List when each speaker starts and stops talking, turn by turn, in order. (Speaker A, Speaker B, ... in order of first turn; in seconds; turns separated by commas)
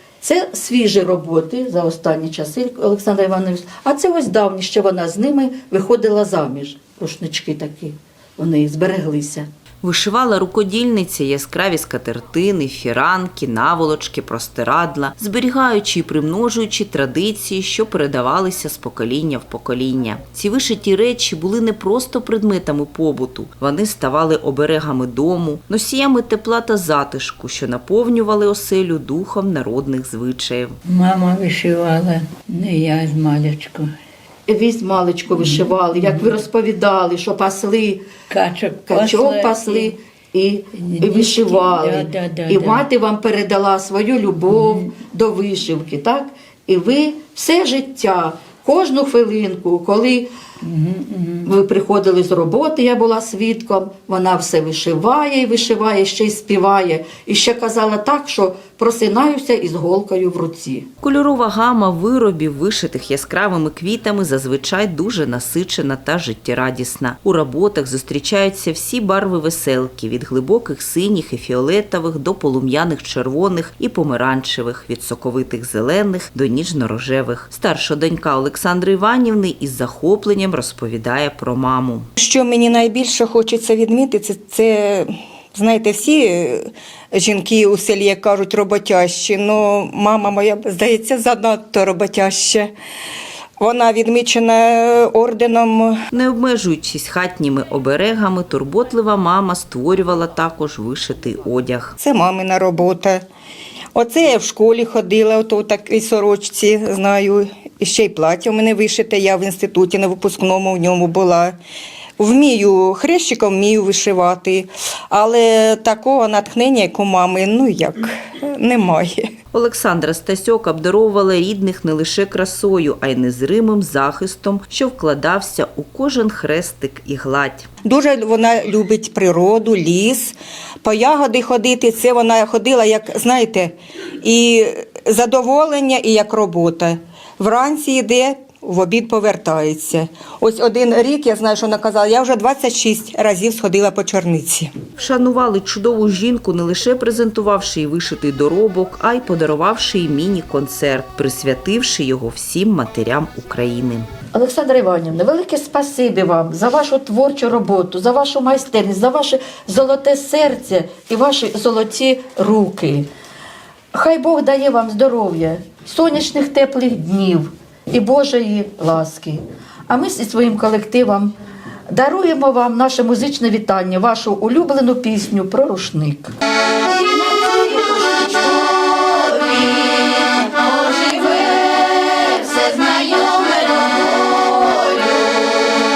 Speaker A: 0.2-9.5, Speaker B: 9.8-30.8, Speaker C: 30.8-33.9, Speaker A: 34.5-38.1, Speaker C: 35.3-36.3, Speaker C: 38.3-39.9, Speaker A: 38.9-50.3, Speaker C: 40.8-42.9, Speaker C: 44.5-44.9, Speaker C: 50.6-51.5, Speaker A: 51.4-60.9, Speaker B: 61.0-82.1, Speaker D: 82.2-92.7, Speaker D: 93.6-96.0, Speaker B: 96.1-101.9, Speaker D: 102.0-103.2, Speaker D: 103.9-111.5, Speaker D: 112.2-119.3, Speaker B: 119.5-127.7, Speaker D: 127.8-144.7, Speaker B: 145.0-154.1, Speaker A: 154.3-163.1, Speaker A: 163.9-171.3, Speaker A: 171.9-176.3, Speaker A: 178.0-178.3, Speaker A: 180.7-184.9